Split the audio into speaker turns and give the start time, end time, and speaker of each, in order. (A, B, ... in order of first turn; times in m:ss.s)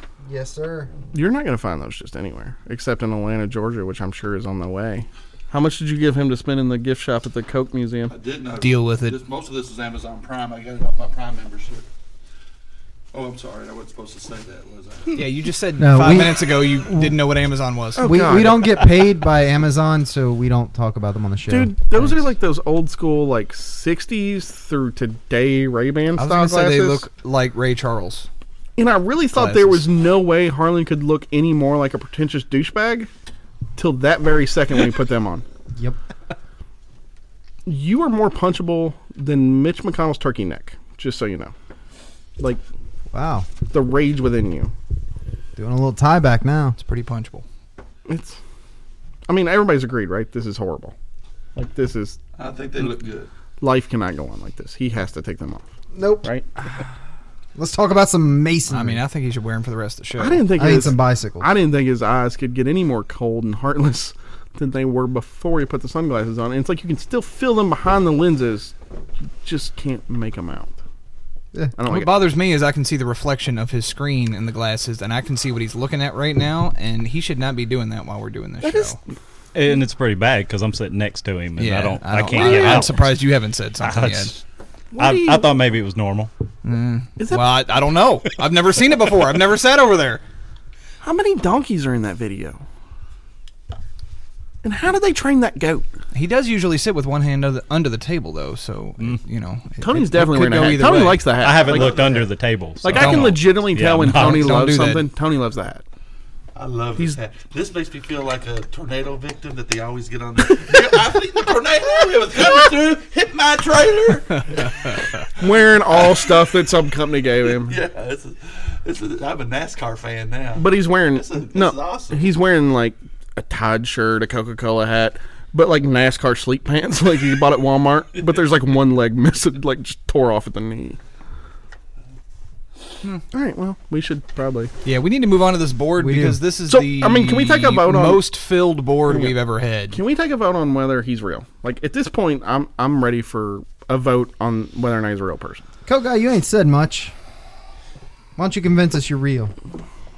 0:00.2-0:00.9 A
0:01.1-0:08.1 B
0:08.1-0:11.8 C
0:08.6-0:09.2 D
0:13.1-0:15.2 C
0:15.1-0:18.1 D
0:15.8-0:17.1 A
0:17.9-0:18.9 B
0:18.0-0:22.3 A
0:21.5-0:27.0 B
0:26.2-0:28.3 D
0:28.8-0:33.1 B
0:29.3-0:29.8 D
0:33.8-0:35.4 B
0:37.6-0:41.5 B
0:43.1-0:43.5 A
0:43.6-0:44.7 B
0:45.6-0:46.8 A
0:46.8-0:47.4 D
0:48.0-0:48.4 B
0:49.3-0:50.9 B
0:51.6-0:52.2 B
0:52.4-0:53.3 C
0:53.6-0:55.6 B
0:55.9-0:56.3 A
0:57.5-0:59.0 A
0:58.7-1:00.4 D
1:00.2-1:08.7 B
1:00.5-1:01.5 A
1:09.4-1:10.8 B
1:11.8-1:12.2 B
1:11.9-1:19.0 D
1:18.6-1:19.0 B
1:19.5-1:23.2 E
1:21.6-1:24.4 D
1:22.3-1:22.8 B
1:23.8-1:24.4 E
1:24.9-1:25.5 B
1:25.0-1:26.3 E
1:26.6-1:30.2 D
1:27.2-1:27.6 B
1:31.0-1:32.6 B
1:34.6-1:35.8 B
1:36.1-1:41.3 D
1:39.8-1:42.3 B
1:41.4-1:44.6 E
1:41.6-1:42.3 C
1:42.8-1:45.8 B
1:43.0-1:43.4 D
1:44.0-1:45.0 D
1:46.6-1:55.0 C
1:55.4-1:57.8 B
1:55.9-1:56.4 C
1:57.4-2:02.3 C
2:00.6-2:11.0 B
2:13.3-2:14.7 B
2:14.8-2:20.0 D
2:16.0-2:16.4 A
2:16.7-2:18.3 B
2:19.1-2:25.6 B
2:25.8-2:27.1 A
2:28.4-2:29.5 A